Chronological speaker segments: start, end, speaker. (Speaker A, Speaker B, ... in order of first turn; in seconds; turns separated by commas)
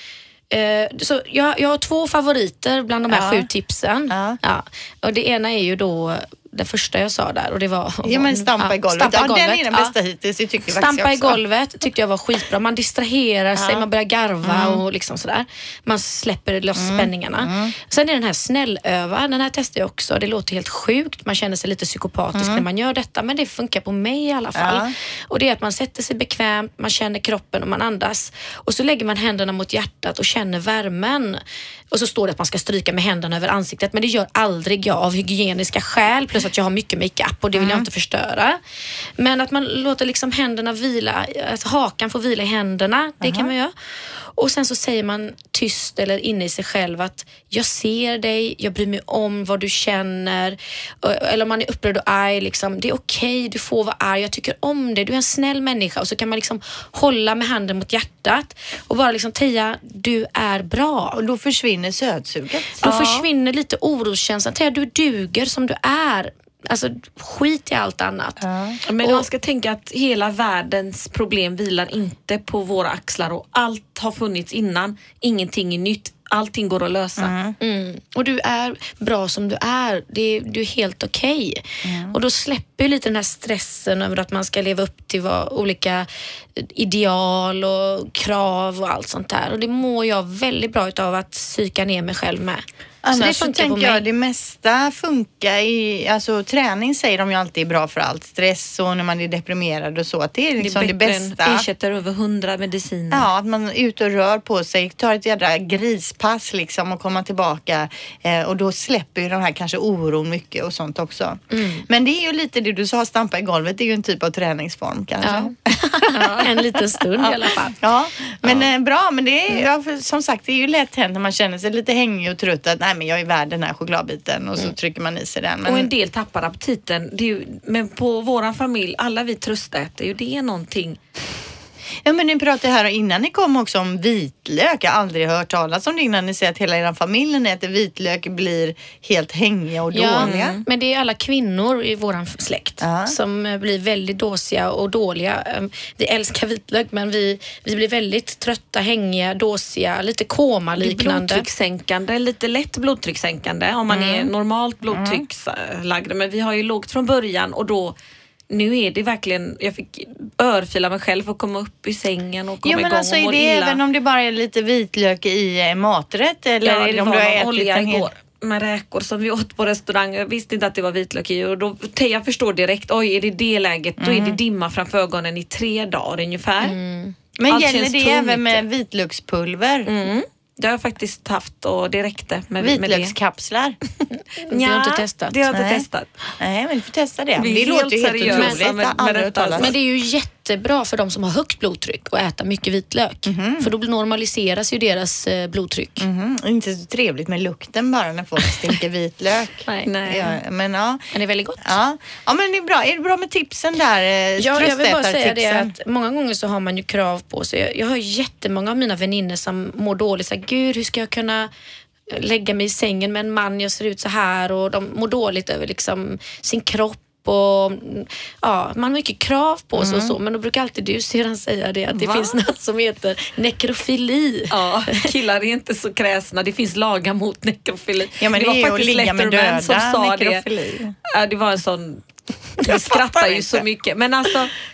Speaker A: 0.5-9.9, Speaker B: 3.1-3.5, Speaker B: 4.1-4.4, Speaker B: 8.0-11.4, Speaker A: 10.7-38.6, Speaker B: 13.6-13.8, Speaker B: 14.4-14.8, Speaker B: 16.8-17.8, Speaker B: 22.4-22.6, Speaker B: 24.6-24.9, Speaker B: 37.5-37.9, Speaker A: 39.2-43.7, Speaker B: 43.2-43.5, Speaker A: 44.4-61.2, Speaker B: 61.1-63.2, Speaker A: 62.8-68.4, Speaker B: 68.4-68.8, Speaker C: 68.9-77.3, Speaker A: 69.0-69.3, Speaker B: 77.2-77.6, Speaker A: 77.6-94.0, Speaker B: 81.8-82.2, Speaker B: 93.0-101.6, Speaker C: 100.6-103.3, Speaker B: 103.1-125.9, Speaker A: 111.5-111.9, Speaker A: 115.2-117.8, Speaker C: 116.1-116.5, Speaker C: 125.6-131.0, Speaker B: 132.1-140.6, Speaker A: 139.9-151.5, Speaker C: 140.2-140.6, Speaker B: 142.8-143.1, Speaker C: 150.8-157.9, Speaker B: 153.9-154.3, Speaker B: 154.9-155.2, Speaker C: 158.5-163.8, Speaker B: 162.6-168.1, Speaker C: 166.6-176.8, Speaker B: 174.0-174.4, Speaker A: 176.6-177.2, Speaker B: 177.4-179.9, Speaker C: 177.5-178.6, Speaker C: 179.9-183.1, Speaker B: 182.6-183.8, Speaker A: 184.1-185.4, Speaker C: 184.5-186.1, Speaker B: 185.5-185.9, Speaker B: 186.4-189.7, Speaker C: 187.4-189.7, Speaker A: 188.3-188.6, Speaker A: 189.6-196.1, Speaker B: 193.3-193.7, Speaker B: 196.0-201.1, Speaker C: 199.9-200.3, Speaker A: 201.1-201.7, Speaker B: 201.6-205.7, Speaker A: 204.4-211.5, Speaker A: 212.1-225.1, Speaker B: 219.8-220.2, Speaker C: 222.0-222.4, Speaker C: 224.5-230.4, Speaker B: 228.2-230.9, Speaker C: 231.1-232.1, Speaker C: 232.6-234.6, Speaker B: 232.7-233.6